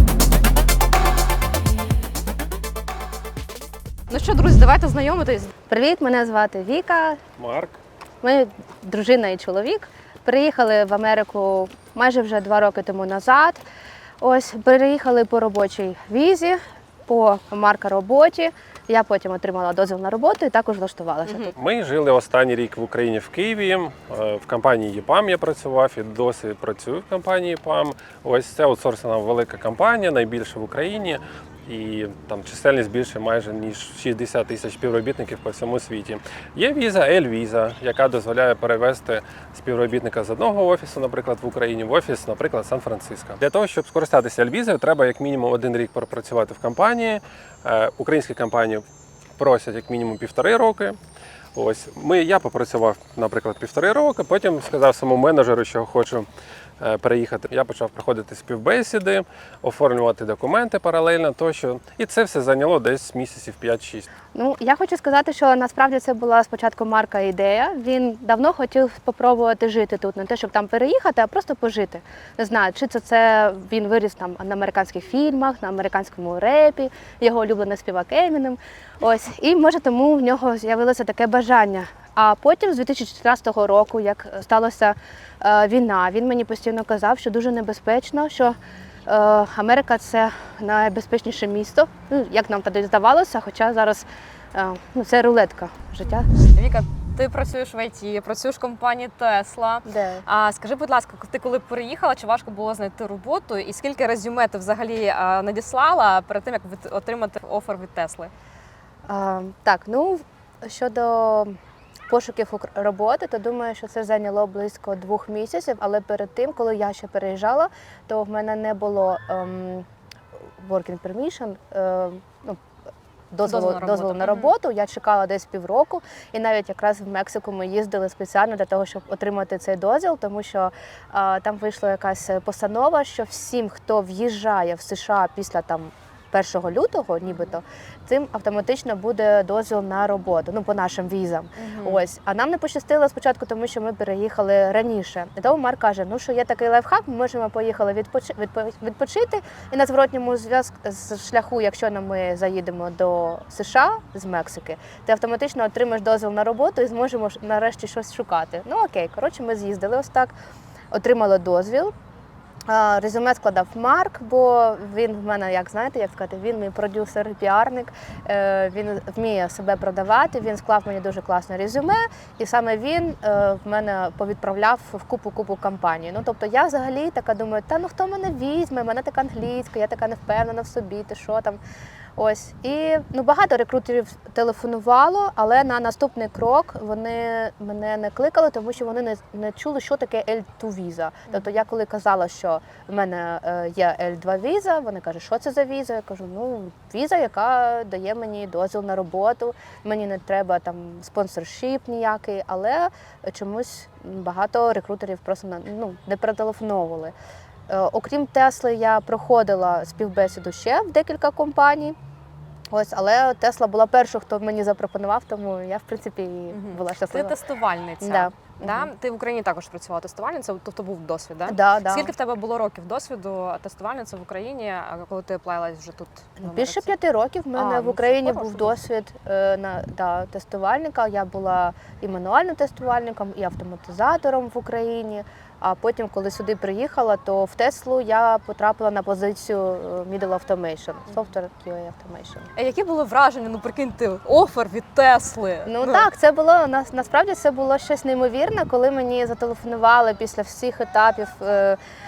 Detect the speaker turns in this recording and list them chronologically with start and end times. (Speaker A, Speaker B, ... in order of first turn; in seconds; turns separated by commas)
Speaker A: 4.1-5.5, Speaker B: 5.7-7.2, Speaker C: 7.4-7.8, Speaker B: 8.2-13.6, Speaker B: 14.2-21.5, Speaker A: 21.3-21.5, Speaker C: 21.6-48.8, Speaker C: 49.4-51.0, Speaker C: 51.5-56.3, Speaker C: 56.8-64.1, Speaker B: 64.3-96.3, Speaker A: 96.3-108.3, Speaker B: 99.9-100.2, Speaker B: 109.1-111.5, Speaker B: 112.1-119.9, Speaker B: 120.6-122.6, Speaker B: 123.3-160.3, Speaker A: 123.5-124.5, Speaker A: 141.6-142.0, Speaker B: 160.9-161.9, Speaker B: 162.7-181.6, Speaker B: 182.2-207.1, Speaker B: 207.7-212.0, Speaker B: 212.7-217.4, Speaker A: 216.5-226.9, Speaker B: 218.0-218.9, Speaker B: 221.5-222.1, Speaker B: 226.4-242.5, Speaker A: 227.6-228.8, Speaker A: 242.6-246.1, Speaker B: 245.7-251.8